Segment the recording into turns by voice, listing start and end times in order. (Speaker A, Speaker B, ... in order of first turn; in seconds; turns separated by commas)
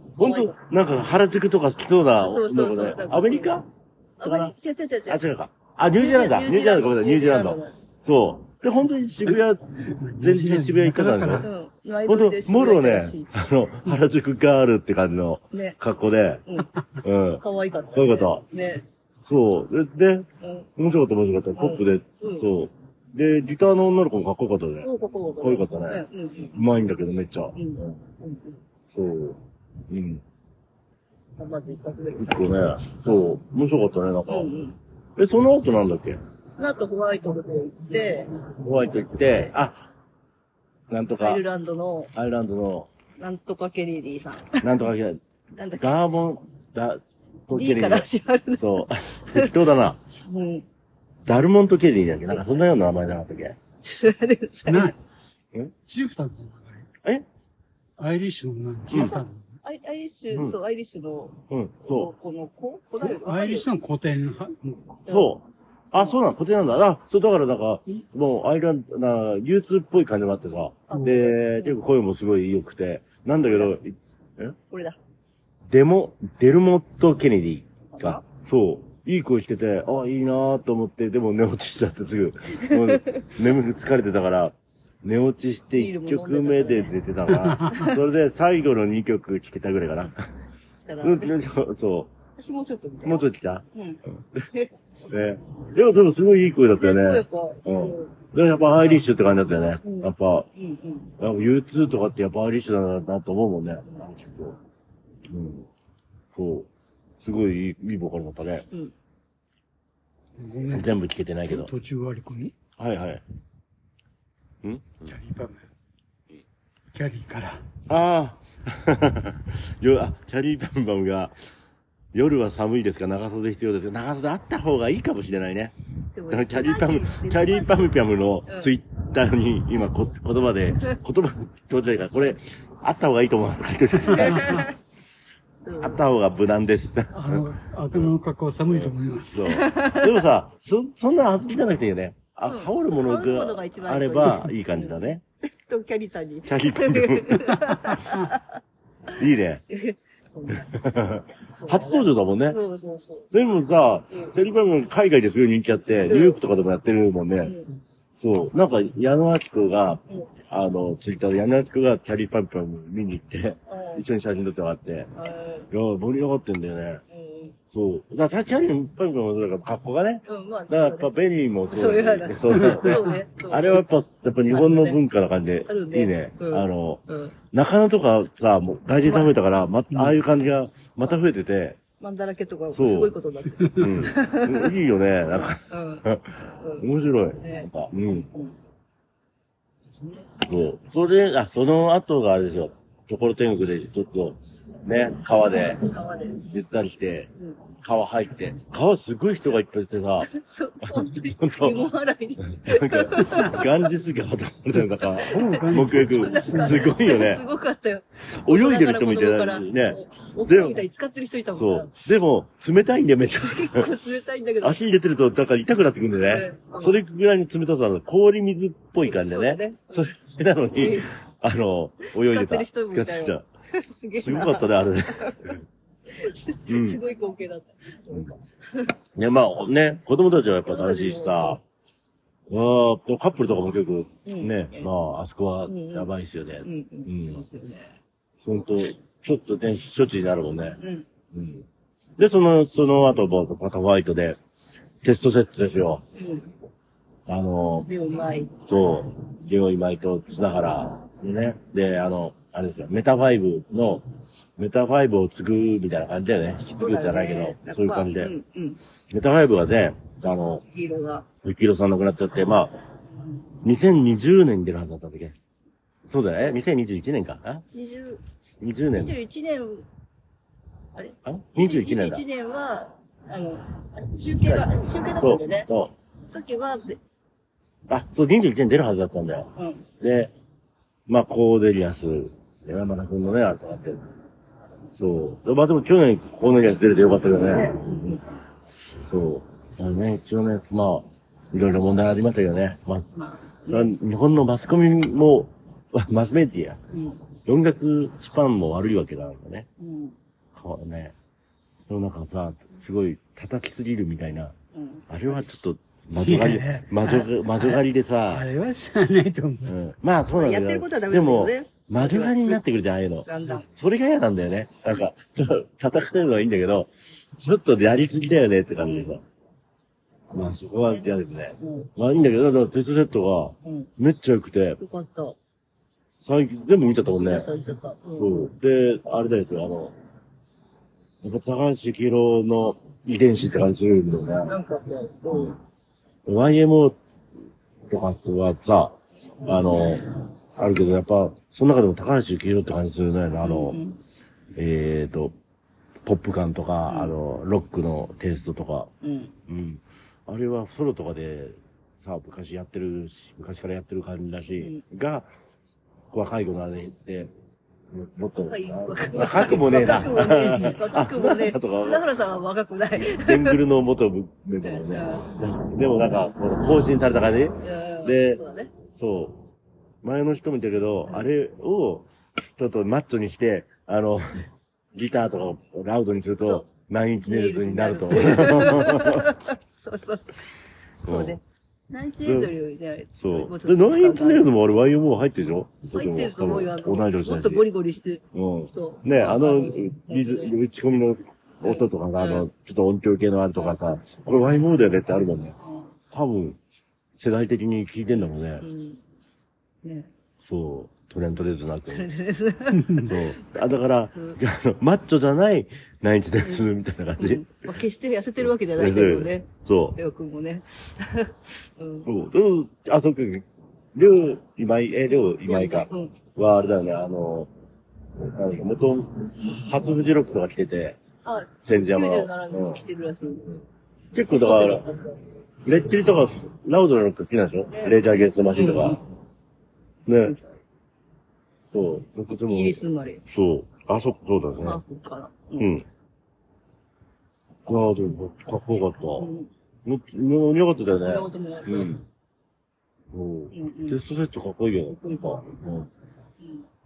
Speaker A: 0.2-0.6, Speaker B: 0.2-3.7, Speaker A: 2.2-3.6, Speaker A: 4.2-5.2, Speaker B: 4.2-4.5, Speaker B: 5.1-11.5, Speaker A: 6.0-7.8, Speaker C: 9.9-11.5, Speaker A: 11.4-13.3, Speaker B: 12.0-16.4, Speaker A: 15.5-15.8, Speaker B: 17.0-18.4, Speaker A: 17.4-18.8, Speaker B: 19.2-24.9, Speaker A: 20.4-20.7, Speaker A: 21.6-22.5, Speaker A: 24.8-26.5, Speaker B: 25.4-28.0, Speaker A: 27.5-28.6, Speaker B: 28.9-30.2, Speaker A: 31.4-32.8, Speaker B: 32.2-34.5, Speaker A: 34.3-34.8, Speaker B: 35.2-36.2, Speaker A: 36.6-38.3, Speaker B: 38.5-39.9, Speaker B: 40.9-41.4, Speaker A: 41.2-42.1, Speaker B: 42.1-42.9, Speaker A: 43.2-44.8, Speaker B: 44.6-45.2, Speaker A: 45.6-45.9, Speaker B: 45.8-50.0, Speaker A: 47.5-49.5, Speaker A: 50.2-50.7, Speaker B: 51.2-53.6, Speaker A: 53.8-54.9, Speaker C: 54.7-55.0, Speaker C: 55.9-56.9, Speaker C: 58.0-59.5, Speaker B: 58.9-59.2, Speaker A: 58.9-63.7, Speaker B: 61.5-62.1, Speaker C: 63.0-65.0, Speaker A: 65.1-65.3, Speaker B: 65.1-74.6, Speaker A: 70.9-71.8, Speaker A: 73.5-73.8, Speaker A: 74.7-75.0, Speaker B: 75.7-90.2, Speaker A: 77.9-78.2, Speaker A: 82.6-83.3, Speaker A: 85.7-87.0, Speaker C: 87.4-87.9, Speaker A: 87.7-88.0, Speaker A: 90.8-91.3, Speaker B: 91.0-92.1, Speaker A: 92.3-94.8, Speaker B: 93.0-93.7, Speaker B: 95.1-100.5, Speaker A: 96.8-98.1, Speaker A: 99.8-101.1, Speaker B: 101.2-104.6, Speaker B: 105.3-105.7, Speaker B: 106.3-106.7, Speaker B: 107.2-108.7, Speaker C: 110.4-110.9, Speaker B: 110.7-111.7, Speaker C: 111.5-112.5, Speaker B: 112.8-113.2, Speaker B: 114.6-115.1, Speaker C: 115.1-115.6, Speaker C: 116.9-117.6, Speaker B: 117.9-121.3, Speaker B: 122.1-125.7, Speaker A: 126.2-127.9, Speaker B: 126.3-134.7, Speaker A: 128.5-128.7, Speaker C: 134.1-134.6, Speaker A: 134.1-134.8, Speaker A: 135.7-136.0, Speaker B: 135.8-138.2, Speaker C: 137.1-139.6, Speaker B: 138.7-145.2, Speaker A: 139.5-140.2, Speaker A: 142.5-148.6, Speaker B: 146.5-148.1, Speaker B: 149.2-149.6, Speaker A: 149.7-150.8, Speaker B: 150.7-152.6, Speaker A: 151.5-153.3, Speaker B: 153.3-157.5, Speaker A: 156.1-156.4, Speaker A: 157.4-157.7, Speaker B: 158.2-165.1, Speaker A: 163.7-164.0, Speaker A: 165.2-165.7, Speaker B: 165.7-167.0, Speaker A: 167.1-167.5, Speaker B: 167.7-181.8, Speaker A: 170.3-171.1, Speaker A: 171.7-173.8, Speaker C: 172.5-173.0, Speaker A: 174.5-175.0, Speaker A: 175.7-177.3, Speaker A: 179.0-179.3, Speaker A: 182.0-184.7, Speaker B: 182.7-183.2, Speaker B: 183.7-188.3, Speaker A: 185.6-186.0, Speaker A: 186.6-186.9, Speaker A: 187.4-188.5, Speaker A: 190.0-190.3, Speaker B: 190.4-200.3, Speaker A: 195.8-196.4, Speaker A: 200.2-203.8, Speaker B: 200.8-201.8, Speaker B: 202.5-207.4, Speaker A: 205.0-211.9, Speaker C: 205.3-206.9, Speaker B: 208.3-210.8, Speaker B: 211.5-213.9, Speaker A: 213.3-214.8, Speaker B: 214.6-223.4, Speaker A: 216.3-217.0, Speaker A: 219.0-220.1, Speaker A: 220.7-221.1, Speaker A: 222.0-225.5, Speaker B: 224.2-225.6, Speaker A: 226.1-229.0, Speaker B: 226.7-227.0, Speaker B: 229.2-231.6, Speaker A: 230.7-231.6, Speaker B: 232.5-237.4, Speaker A: 234.2-234.9, Speaker A: 235.7-236.1, Speaker A: 236.6-238.0, Speaker B: 238.4-240.8, Speaker A: 240.8-241.1, Speaker B: 241.3-241.7, Speaker B: 242.2-244.4, Speaker B: 245.0-246.0, Speaker A: 246.2-246.5, Speaker B: 247.3-247.9, Speaker A: 247.8-248.6, Speaker B: 248.6-254.0, Speaker B: 254.6-258.3, Speaker A: 256.8-258.8, Speaker B: 259.1-260.6, Speaker A: 260.6-261.2, Speaker B: 261.4-262.7, Speaker A: 263.2-263.4, Speaker B: 263.6-265.4, Speaker B: 266.1-267.6, Speaker A: 267.7-268.2, Speaker B: 268.6-269.1, Speaker A: 268.9-269.9, Speaker A: 271.0-275.7, Speaker B: 271.2-272.2, Speaker B: 274.4-275.9, Speaker A: 276.3-277.0, Speaker B: 277.9-280.3, Speaker A: 279.6-279.9, Speaker B: 281.1-284.0, Speaker B: 284.9-288.1, Speaker A: 287.4-288.3, Speaker B: 289.0-293.1, Speaker A: 293.1-293.9, Speaker B: 293.7-296.8, Speaker A: 296.9-297.2, Speaker B: 297.5-299.7, Speaker A: 299.8-300.1, Speaker B: 300.5-301.1, Speaker B: 301.9-304.5, Speaker A: 304.7-305.4, Speaker B: 305.1-308.5, Speaker C: 306.2-309.8, Speaker B: 309.6-319.2, Speaker A: 310.3-312.6, Speaker A: 313.2-313.6, Speaker A: 318.8-319.2, Speaker B: 320.3-324.8, Speaker A: 320.9-321.9, Speaker A: 323.6-323.9, Speaker A: 324.8-325.4, Speaker B: 326.2-327.5, Speaker A: 327.1-328.5, Speaker B: 328.1-329.9, Speaker B: 331.2-334.5, Speaker A: 334.4-335.6, Speaker B: 336.2-337.0, Speaker B: 337.9-343.8, Speaker A: 343.4-344.0, Speaker B: 344.6-345.3, Speaker B: 346.0-348.9, Speaker A: 346.9-347.1, Speaker A: 349.0-349.3, Speaker B: 349.5-355.3, Speaker B: 356.1-357.3, Speaker B: 357.9-362.1, Speaker A: 358.5-363.6, Speaker B: 362.9-369.4, Speaker A: 364.6-365.3, Speaker A: 367.6-368.7, Speaker B: 370.0-379.3, Speaker A: 376.4-376.7, Speaker A: 377.2-380.5, Speaker B: 381.1-381.4, Speaker A: 381.1-384.5, Speaker B: 382.2-382.5, Speaker B: 383.2-387.7, Speaker A: 385.9-390.6, Speaker B: 388.3-395.6, Speaker A: 391.6-392.5, Speaker A: 395.6-395.9, Speaker B: 396.1-396.6, Speaker B: 397.2-398.6, Speaker A: 398.6-399.0, Speaker A: 399.8-400.1, Speaker B: 400.4-402.1, Speaker A: 401.9-403.3, Speaker B: 402.9-407.4, Speaker A: 407.2-412.1, Speaker B: 408.8-410.0, Speaker B: 412.1-417.5, Speaker A: 415.1-416.1, Speaker B: 418.2-421.0, Speaker A: 421.2-423.6, Speaker B: 421.6-422.8, Speaker B: 424.1-424.9, Speaker A: 424.3-425.1, Speaker B: 425.6-429.0, Speaker A: 428.6-429.0, Speaker B: 430.1-430.4, Speaker A: 430.1-430.5, Speaker B: 431.7-434.8, Speaker A: 432.5-433.2, Speaker A: 434.6-435.7, Speaker B: 435.6-435.9, Speaker B: 437.6-439.3, Speaker A: 439.2-439.5, Speaker B: 439.9-442.0, Speaker A: 441.0-442.0, Speaker B: 443.1-445.9, Speaker A: 443.5-444.0, Speaker A: 444.9-445.5